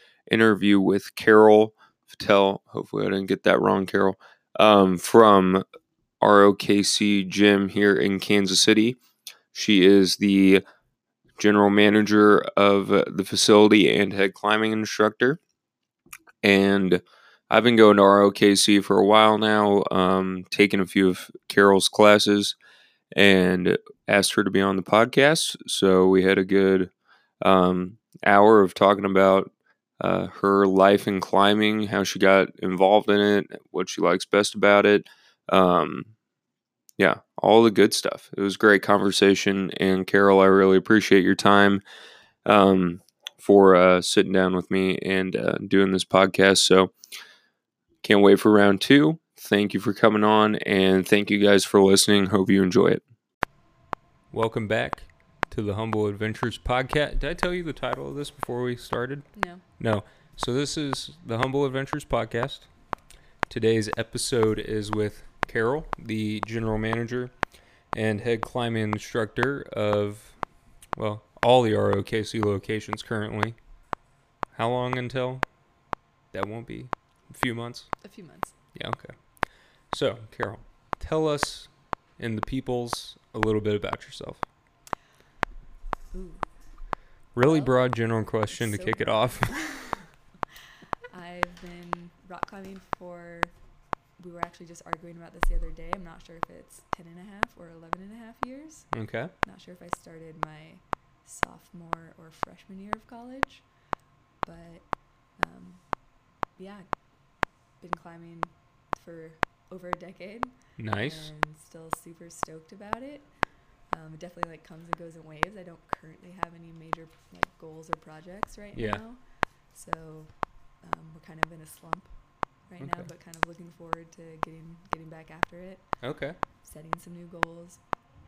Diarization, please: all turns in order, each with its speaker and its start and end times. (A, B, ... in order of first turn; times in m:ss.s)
0:00.3-0:05.6 A
0:06.2-0:09.0 A
0:09.5-0:10.6 A
0:11.4-0:15.4 A
0:16.4-0:22.6 A
0:23.1-0:36.1 A
0:37.0-0:41.8 A
0:42.5-0:46.9 A
0:48.0-0:53.0 A
0:54.3-1:02.7 A
0:59.4-0:59.6 B
1:03.5-1:07.3 A
1:07.9-1:10.4 A
1:11.0-1:13.6 A
1:14.5-1:15.4 A
1:16.3-1:17.9 A
1:18.0-1:18.6 B
1:18.8-1:19.2 A
1:19.9-1:24.4 A
1:26.1-1:26.5 B
1:27.4-1:29.6 A
1:27.4-1:27.8 B
1:28.5-1:30.1 B
1:31.1-1:33.5 B
1:34.2-1:38.9 B
1:38.9-1:39.3 A
1:39.4-1:43.7 B
1:44.4-1:44.9 B
1:45.4-1:45.8 B
1:46.6-1:46.9 B
1:47.8-1:53.3 B
1:50.8-1:51.3 A
1:53.9-1:59.2 B
1:58.8-1:59.0 A
1:59.7-2:02.1 B
2:02.7-2:05.9 B
2:02.8-2:03.1 A
2:06.0-2:06.4 A
2:06.6-2:07.8 B